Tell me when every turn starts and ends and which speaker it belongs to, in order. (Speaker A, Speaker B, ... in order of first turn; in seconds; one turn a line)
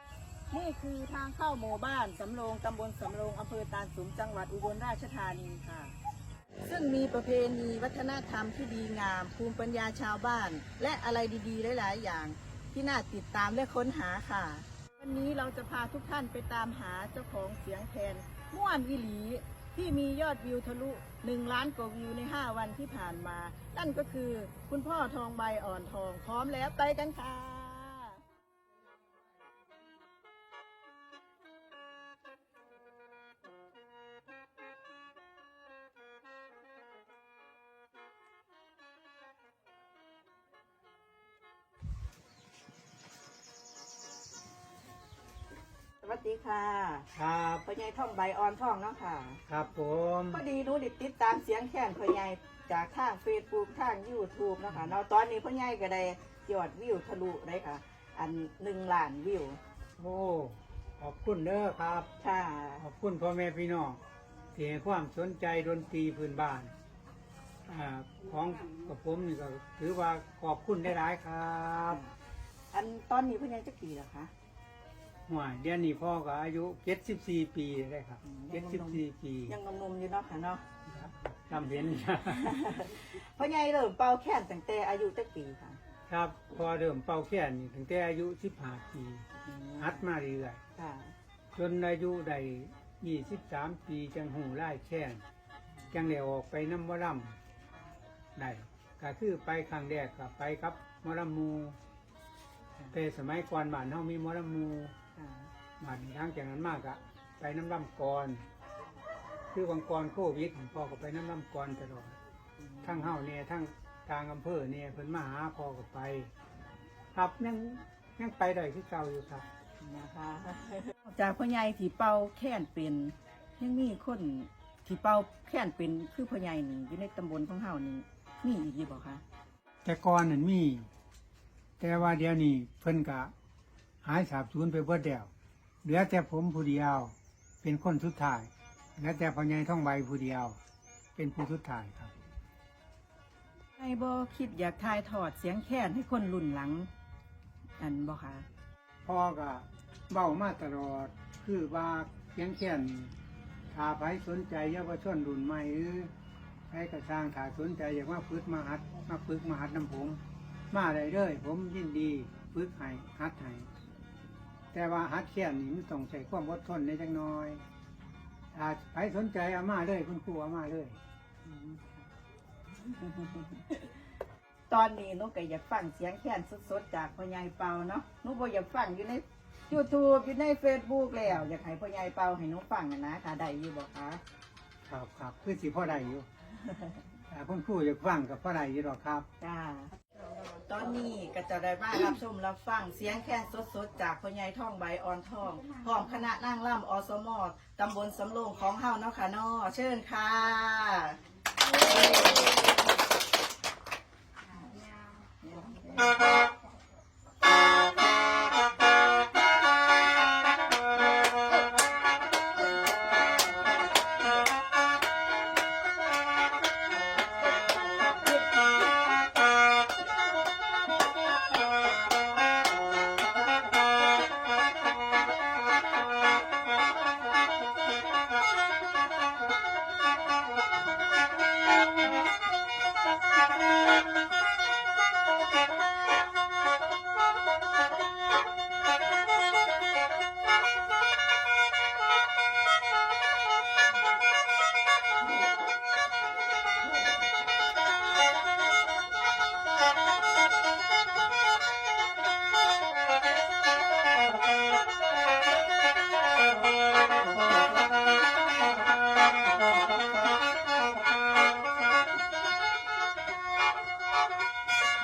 Speaker A: 0.5-6.0
Speaker A: 6.6-28.2
Speaker A: 46.0-47.1
Speaker B: 47.1-47.6
Speaker A: 47.6-49.4
Speaker B: 49.5-50.4
Speaker A: 50.3-59.6
Speaker B: 60.0-62.1
Speaker A: 62.2-62.8
Speaker B: 62.8-64.0
Speaker B: 64.5-66.7
Speaker B: 67.7-72.0
Speaker A: 71.9-72.1
Speaker A: 72.7-74.3
Speaker B: 75.3-79.5
Speaker A: 78.2-80.6
Speaker B: 80.9-82.5
Speaker A: 82.2-85.8
Speaker B: 86.1-89.3
Speaker A: 89.4-90.0
Speaker B: 89.8-90.6
Speaker A: 90.8-91.1
Speaker B: 91.5-95.2
Speaker B: 95.9-97.4
Speaker B: 98.3-101.8
Speaker B: 102.9-104.9
Speaker A: 105.2-105.5
Speaker B: 105.8-108.4
Speaker B: 109.5-112.2
Speaker A: 112.6-113.1
Speaker B: 112.8-116.3
Speaker B: 117.1-119.5
Speaker A: 119.8-129.2
Speaker B: 129.8-130.9
Speaker B: 131.8-133.3
Speaker B: 134.0-135.3
Speaker B: 135.8-140.6
Speaker B: 141.2-142.1
Speaker A: 143.8-146.9
Speaker A: 147.8-148.4
Speaker B: 149.0-153.1
Speaker B: 153.7-156.1
Speaker B: 156.7-160.2
Speaker B: 160.7-163.7
Speaker B: 164.7-167.6
Speaker B: 168.5-171.0
Speaker A: 171.4-172.1
Speaker A: 172.8-173.9
Speaker A: 174.7-184.2
Speaker B: 184.8-186.2
Speaker A: 186.6-187.0
Speaker B: 187.3-189.3
Speaker A: 189.4-201.2
Speaker A: 201.7-202.7
Speaker A: 204.5-206.2